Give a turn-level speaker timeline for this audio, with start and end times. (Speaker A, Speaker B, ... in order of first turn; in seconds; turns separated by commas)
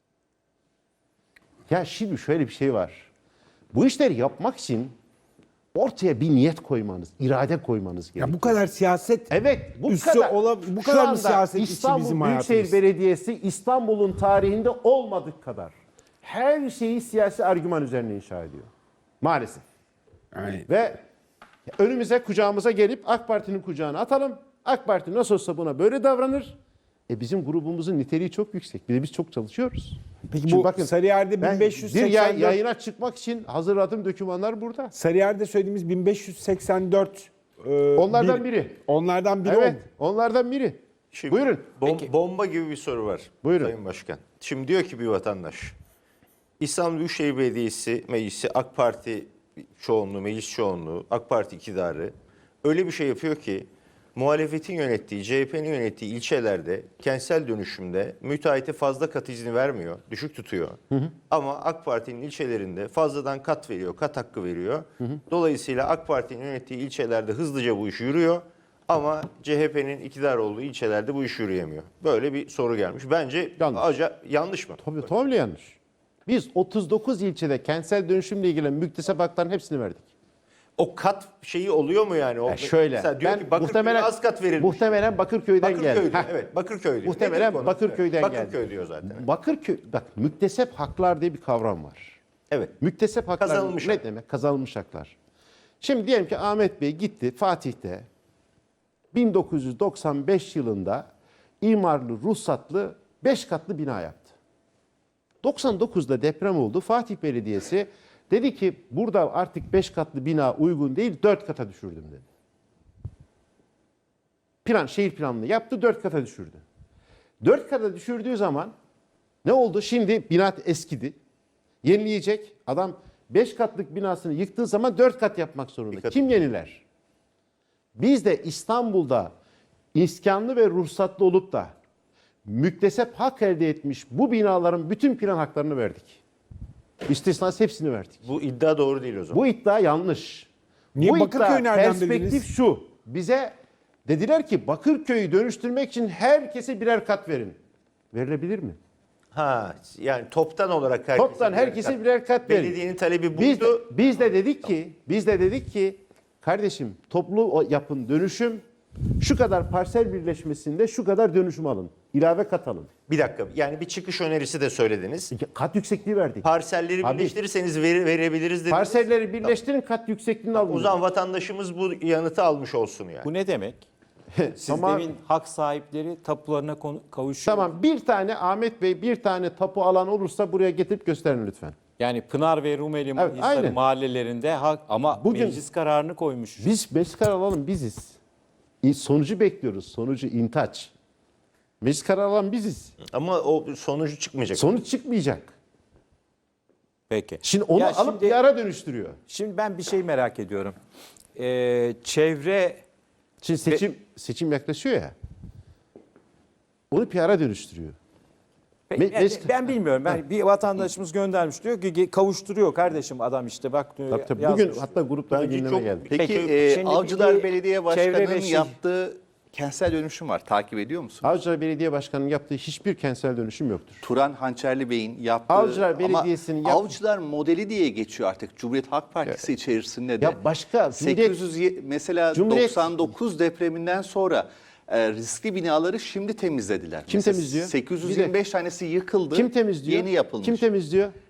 Speaker A: 1.7-3.1, Speaker A: 3.7-4.9, Speaker A: 5.7-8.6, Speaker B: 8.2-9.3, Speaker A: 9.3-18.7, Speaker B: 9.8-12.7, Speaker A: 19.2-19.6, Speaker B: 20.3-20.6, Speaker A: 20.7-21.0, Speaker A: 21.7-26.5, Speaker A: 27.1-34.9, Speaker B: 30.3-32.6, Speaker B: 34.9-39.8, Speaker A: 38.0-38.8, Speaker A: 39.4-41.8, Speaker C: 41.1-45.7, Speaker A: 43.4-43.7, Speaker C: 46.6-60.8, Speaker C: 61.3-74.9, Speaker A: 73.6-73.9, Speaker A: 74.8-80.0, Speaker C: 80.8-85.0, Speaker A: 82.5-86.3, Speaker C: 85.6-89.2, Speaker A: 87.0-92.2, Speaker C: 92.5-92.7, Speaker A: 92.8-95.1, Speaker C: 93.4-94.0, Speaker A: 95.8-98.0, Speaker A: 99.1-101.0, Speaker A: 101.6-104.3, Speaker A: 105.4-112.2, Speaker A: 114.6-116.6, Speaker A: 117.4-118.7, Speaker A: 119.4-121.2, Speaker A: 121.8-126.8, Speaker C: 125.9-126.2, Speaker A: 128.0-129.3, Speaker A: 129.9-131.7, Speaker A: 132.4-136.2, Speaker A: 137.1-138.2, Speaker C: 138.2-139.4, Speaker A: 139.3-140.5, Speaker B: 140.9-142.4, Speaker A: 141.0-143.5, Speaker A: 144.1-147.6, Speaker A: 148.1-148.8, Speaker C: 149.3-153.8, Speaker A: 151.1-152.8, Speaker A: 153.3-158.6, Speaker A: 159.2-162.9, Speaker C: 163.1-165.3, Speaker A: 165.3-166.4, Speaker C: 166.4-169.6, Speaker A: 167.0-167.3, Speaker A: 168.7-171.0, Speaker C: 170.5-173.3, Speaker D: 173.2-173.8, Speaker A: 174.3-175.1, Speaker D: 174.6-177.7, Speaker A: 177.4-181.7, Speaker D: 182.0-186.7, Speaker A: 183.2-183.8, Speaker A: 185.1-185.6, Speaker A: 186.6-188.2, Speaker A: 188.8-190.9, Speaker A: 191.8-192.9, Speaker C: 193.1-194.7, Speaker A: 194.5-195.5, Speaker D: 197.1-198.4, Speaker A: 197.4-199.2, Speaker D: 199.3-200.8, Speaker D: 201.3-202.8, Speaker A: 203.4-205.1, Speaker A: 206.9-207.9, Speaker D: 208.9-214.9, Speaker A: 209.0-209.7, Speaker A: 214.1-216.1, Speaker C: 215.3-216.5, Speaker E: 216.1-221.2, Speaker D: 216.2-218.7, Speaker A: 221.2-224.0, Speaker E: 224.0-230.4, Speaker A: 225.5-226.9, Speaker A: 230.2-231.3, Speaker E: 231.0-240.6, Speaker A: 232.3-232.9, Speaker A: 237.1-238.3, Speaker A: 239.3-241.1